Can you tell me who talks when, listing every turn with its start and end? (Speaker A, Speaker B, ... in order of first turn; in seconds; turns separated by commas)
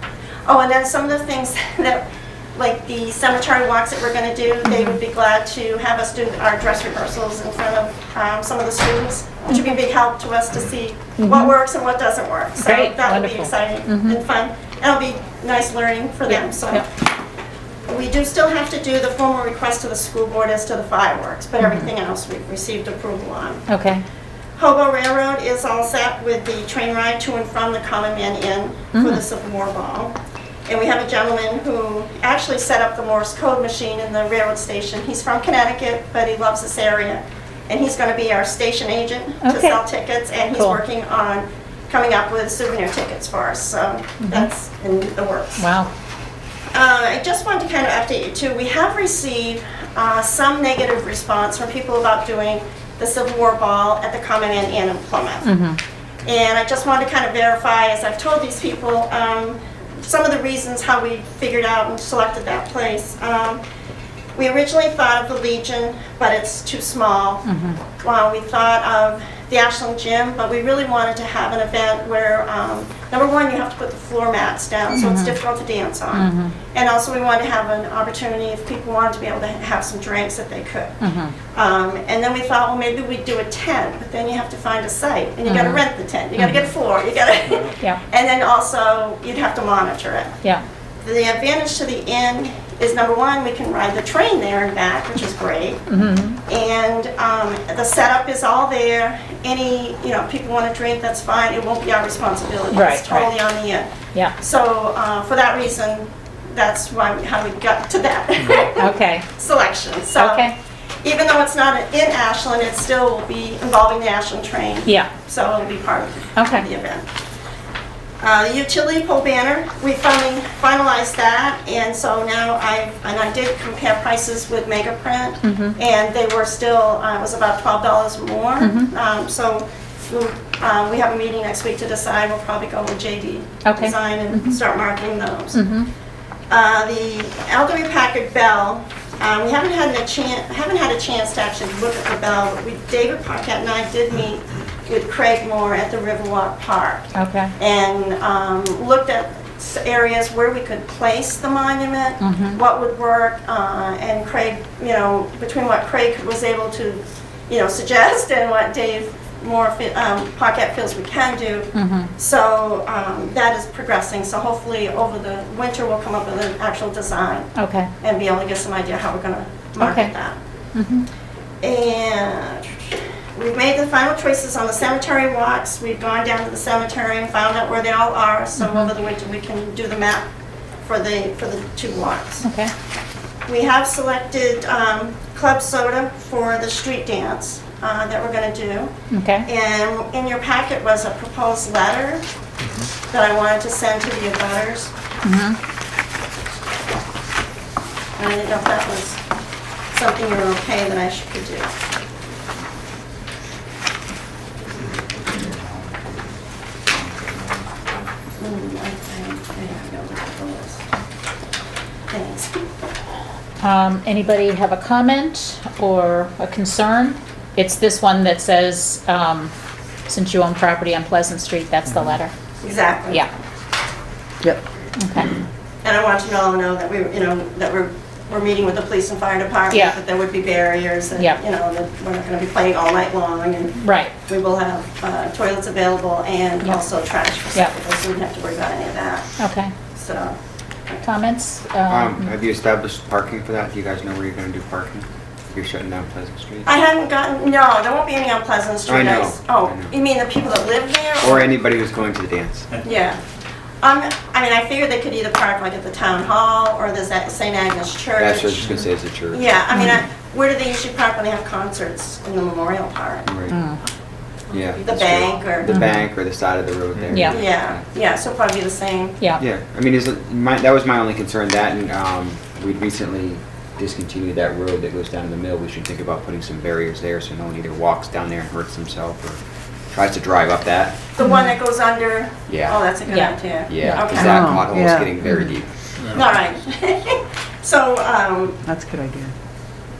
Speaker A: 0.5-16.9, Speaker B: 4.7-5.0, Speaker B: 9.5-9.8, Speaker B: 11.2-11.5, Speaker B: 12.6-14.2, Speaker B: 16.3-16.8, Speaker A: 17.9-23.7, Speaker B: 21.6-21.9, Speaker B: 23.7-24.0, Speaker A: 24.6-30.1, Speaker B: 28.9-29.2, Speaker A: 30.7-45.7, Speaker B: 39.4-39.8, Speaker B: 44.2-44.5, Speaker B: 45.6-45.9, Speaker A: 46.7-55.5, Speaker B: 55.4-55.8, Speaker A: 56.2-63.6, Speaker A: 64.3-67.4, Speaker B: 67.5-67.8, Speaker A: 68.0-81.0, Speaker B: 74.9-75.4, Speaker B: 76.1-76.5, Speaker B: 81.0-81.3, Speaker A: 81.5-90.3, Speaker B: 85.5-85.8, Speaker B: 86.4-86.7, Speaker A: 91.0-110.5, Speaker B: 95.9-96.4, Speaker B: 102.7-103.3, Speaker B: 108.5-109.3, Speaker B: 110.2-110.6, Speaker A: 111.0-117.1, Speaker B: 116.4-116.7, Speaker A: 118.2-135.6, Speaker B: 125.4-125.8, Speaker B: 128.6-128.9, Speaker B: 133.7-134.6, Speaker B: 135.5-135.9, Speaker A: 136.5-167.5, Speaker B: 147.2-147.5, Speaker B: 152.2-152.6, Speaker B: 161.7-162.1, Speaker B: 167.6-167.9, Speaker A: 168.0-170.4, Speaker B: 169.8-170.1, Speaker B: 170.8-171.1, Speaker A: 171.6-180.3, Speaker B: 178.6-178.9, Speaker A: 180.8-182.4, Speaker B: 182.4-182.7, Speaker A: 183.5-188.9, Speaker B: 189.1-189.5, Speaker A: 189.4-192.2, Speaker A: 193.1-194.9, Speaker B: 195.2-195.6, Speaker A: 198.2-199.2, Speaker A: 199.9-201.7, Speaker C: 205.3-206.1, Speaker C: 206.9-207.7, Speaker A: 208.4-210.8, Speaker A: 212.1-212.6, Speaker B: 213.6-219.5, Speaker B: 220.1-222.3, Speaker A: 222.6-223.3, Speaker B: 225.0-225.3, Speaker A: 225.8-239.3, Speaker B: 229.7-230.0, Speaker B: 233.8-234.1, Speaker B: 239.4-239.7, Speaker A: 239.9-240.4, Speaker B: 241.0-242.3, Speaker C: 241.9-246.7, Speaker A: 246.7-251.5, Speaker C: 248.9-249.9, Speaker C: 251.2-252.7, Speaker A: 252.8-253.2, Speaker A: 253.8-263.3, Speaker C: 258.2-259.4, Speaker B: 259.7-260.0, Speaker C: 263.3-263.5, Speaker B: 263.5-263.8, Speaker C: 264.5-267.8, Speaker A: 264.5-265.9, Speaker B: 265.7-266.0, Speaker B: 267.1-267.4, Speaker A: 267.3-269.2, Speaker C: 269.4-279.4, Speaker C: 279.9-281.0, Speaker A: 281.2-284.7, Speaker B: 281.2-281.5, Speaker C: 282.5-282.9, Speaker B: 283.1-283.3, Speaker C: 283.6-285.7, Speaker D: 283.8-285.1, Speaker B: 285.2-285.5, Speaker A: 286.1-288.6, Speaker D: 288.6-289.3